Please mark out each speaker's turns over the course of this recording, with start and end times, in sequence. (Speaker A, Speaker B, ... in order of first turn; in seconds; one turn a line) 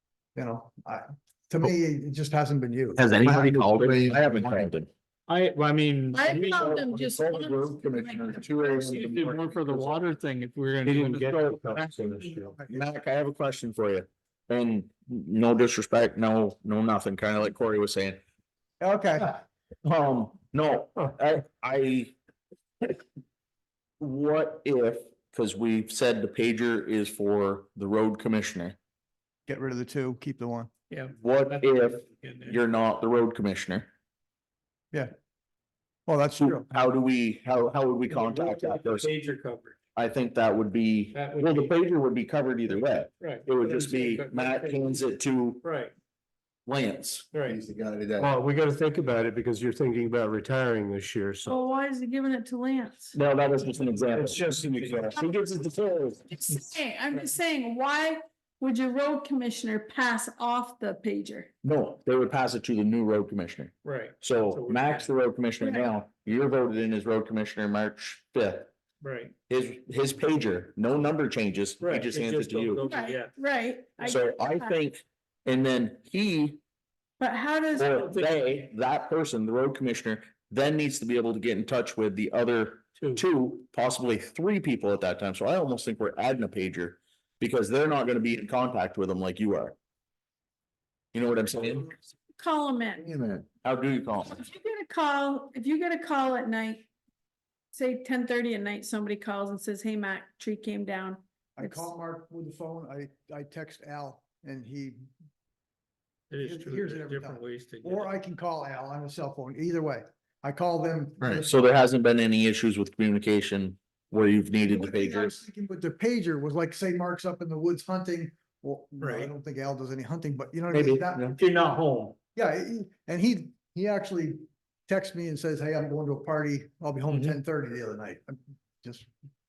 Speaker A: 0.3-3.0
Speaker B: 3.0-4.9
Speaker C: 3.2-4.7
Speaker D: 5.3-6.7
Speaker E: 6.1-9.0
Speaker C: 6.4-10.0
Speaker D: 8.8-11.6
Speaker B: 10.8-18.2
Speaker F: 10.9-12.4
Speaker A: 12.3-12.8
Speaker A: 18.8-19.3
Speaker B: 19.8-22.1
Speaker B: 24.0-28.8
Speaker A: 29.5-30.7
Speaker D: 30.9-32.6
Speaker B: 31.2-33.9
Speaker A: 36.1-36.7
Speaker B: 36.4-39.1
Speaker D: 38.1-39.8
Speaker B: 40.0-45.6
Speaker D: 41.1-41.7
Speaker D: 43.2-45.0
Speaker D: 45.6-45.9
Speaker B: 46.6-47.3
Speaker D: 47.3-47.6
Speaker C: 47.4-48.3
Speaker F: 48.2-51.6
Speaker E: 51.5-53.1
Speaker B: 53.1-56.3
Speaker F: 54.1-55.1
Speaker D: 54.6-55.1
Speaker E: 56.3-61.5
Speaker B: 61.6-68.7
Speaker D: 63.8-65.1
Speaker E: 65.6-65.9
Speaker D: 69.0-69.3
Speaker B: 69.5-72.8
Speaker D: 71.8-73.3
Speaker E: 72.8-74.8
Speaker B: 74.0-76.6
Speaker E: 77.2-78.0
Speaker B: 77.8-89.8
Speaker D: 78.0-78.6
Speaker D: 83.0-83.2
Speaker B: 91.1-91.9
Speaker E: 92.4-93.0
Speaker C: 93.0-93.4
Speaker B: 93.6-94.4
Speaker E: 94.3-96.9
Speaker E: 97.7-101.9
Speaker A: 101.6-105.0
Speaker D: 106.3-108.1
Speaker A: 106.4-111.5
Speaker B: 111.4-115.4
Speaker A: 114.6-121.4
Speaker D: 119.0-119.3
Speaker B: 120.7-121.3
Speaker D: 121.4-122.1
Speaker A: 122.3-129.1
Speaker D: 127.1-127.4